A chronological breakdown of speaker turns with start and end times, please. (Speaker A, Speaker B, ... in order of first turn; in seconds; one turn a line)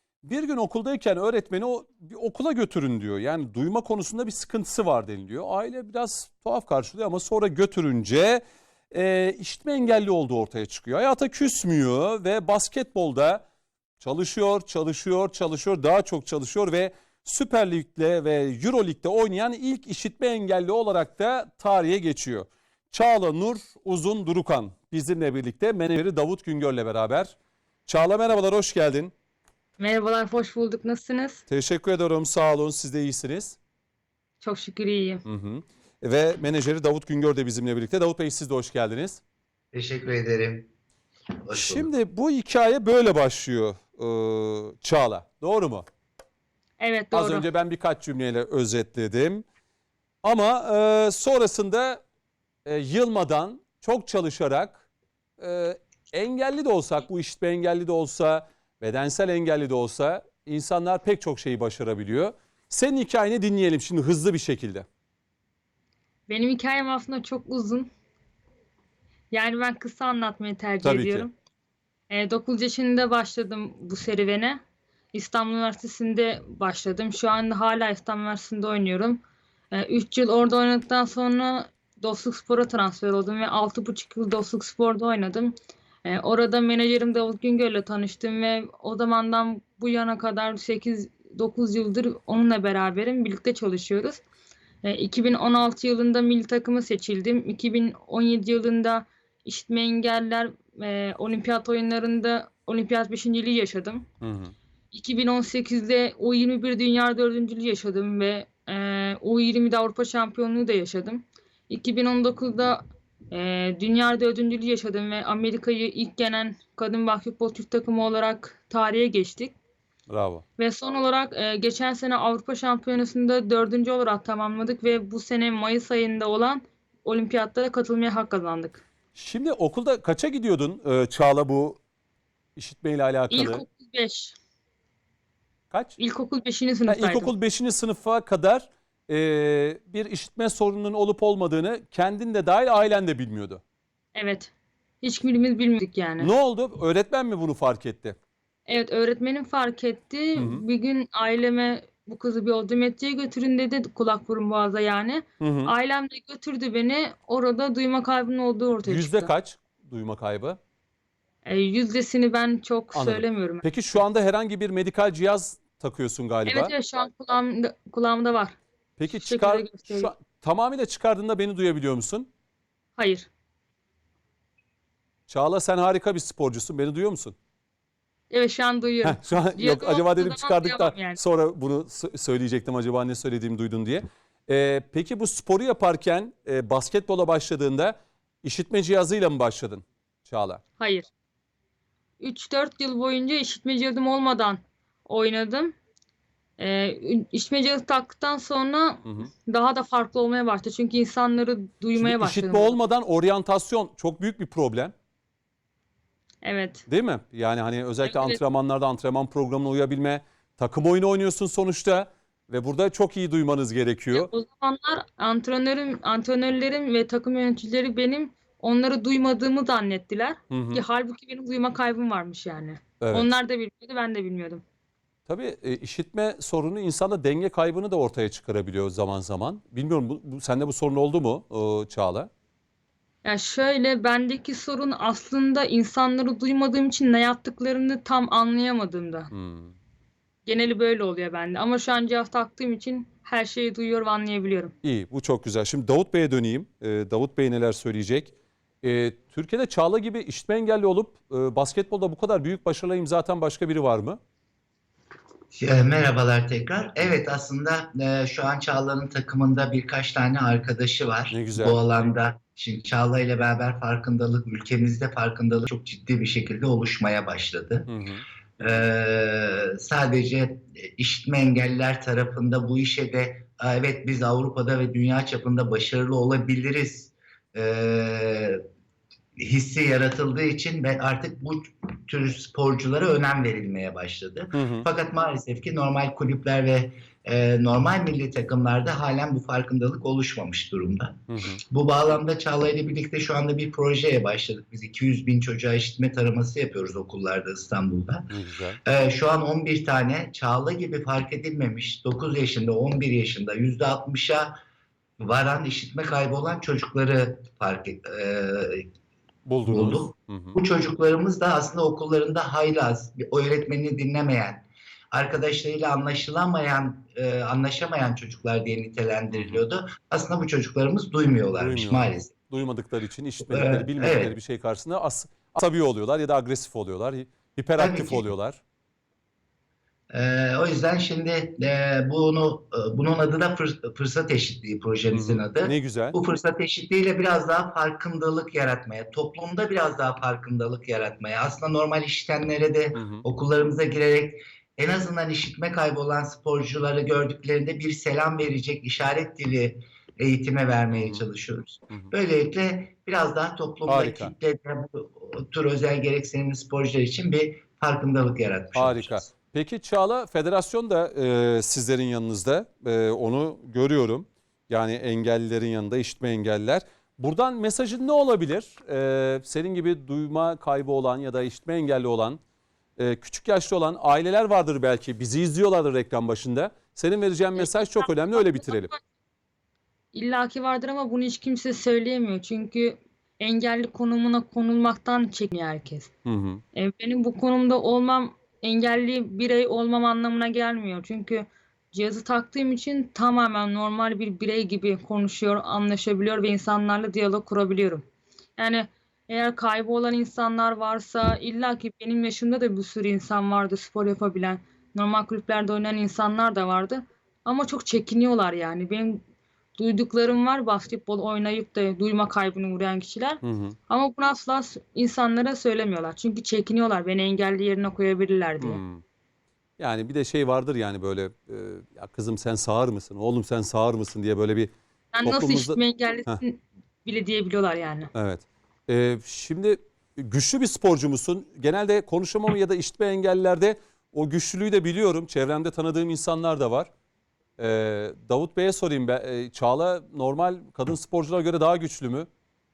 Speaker A: 0.2-13.4
Speaker A: 14.0-27.4
Speaker A: 27.9-29.1
Speaker B: 29.8-31.4
Speaker A: 31.5-33.6
Speaker B: 34.4-35.2
Speaker A: 35.2-39.2
Speaker C: 39.7-40.7
Speaker C: 41.4-41.9
Speaker A: 41.5-45.9
Speaker B: 46.8-47.5
Speaker A: 47.1-49.5
Speaker A: 50.2-52.0
Speaker A: 52.6-54.8
Speaker A: 55.4-64.9
Speaker B: 66.3-67.9
Speaker B: 69.3-71.3
Speaker A: 70.8-71.3
Speaker B: 72.1-74.6
Speaker B: 75.1-79.2
Speaker B: 79.7-94.2
Speaker B: 94.8-104.0
Speaker A: 104.2-104.5
Speaker B: 104.9-119.5
Speaker A: 120.1-120.4
Speaker B: 120.6-128.8
Speaker A: 129.1-131.8
Speaker A: 132.6-133.7
Speaker B: 133.3-134.4
Speaker A: 135.7-136.0
Speaker B: 136.0-137.3
Speaker A: 136.9-143.6
Speaker B: 144.2-144.5
Speaker B: 145.0-146.3
Speaker A: 146.2-148.2
Speaker B: 148.7-159.3
Speaker A: 150.3-150.6
Speaker A: 155.4-155.7
Speaker A: 158.8-160.6
Speaker B: 161.4-163.7
Speaker A: 162.9-166.7
Speaker B: 166.5-168.6
Speaker A: 169.0-172.3
Speaker B: 169.2-170.1
Speaker B: 173.0-173.3
Speaker A: 175.3-177.3
Speaker B: 178.3-181.2
Speaker A: 179.0-190.6
Speaker B: 190.8-191.1
Speaker B: 192.2-195.8
Speaker B: 196.6-202.8
Speaker A: 199.1-199.3
Speaker A: 202.0-204.9
Speaker B: 206.4-206.9
Speaker A: 206.9-214.3
Speaker B: 208.0-208.4
Speaker B: 214.1-224.6
Speaker A: 220.5-220.8
Speaker A: 223.0-223.3
Speaker A: 225.3-232.3
Speaker B: 233.2-239.3
Speaker A: 239.3-239.8
Speaker B: 240.5-244.7
Speaker A: 244.8-254.2
Speaker C: 255.6-267.9
Speaker A: 261.3-261.8
Speaker A: 267.9-268.2
Speaker C: 268.6-278.6
Speaker C: 279.4-298.3
Speaker A: 284.5-284.9
Speaker A: 291.3-291.6
Speaker A: 298.3-298.8
Speaker C: 298.9-304.6
Speaker C: 305.2-308.9
Speaker A: 309.4-310.6
Speaker C: 309.7-322.3
Speaker A: 319.3-319.6
Speaker A: 321.6-328.6
Speaker C: 323.5-324.4
Speaker C: 327.8-328.3
Speaker C: 330.1-359.3
Speaker A: 335.1-336.2
Speaker A: 342.9-343.2
Speaker A: 350.9-351.2
Speaker A: 353.9-354.3
Speaker A: 358.8-372.4
Speaker A: 373.0-378.9
Speaker B: 377.6-379.0
Speaker B: 380.1-386.1
Speaker A: 386.2-386.6
Speaker B: 386.8-398.1
Speaker B: 398.6-409.2
Speaker B: 409.8-418.8
Speaker A: 413.4-413.8
Speaker A: 418.6-419.0
Speaker A: 419.8-424.7
Speaker B: 425.1-428.1
Speaker A: 425.2-426.4
Speaker A: 428.1-436.9
Speaker A: 437.6-442.3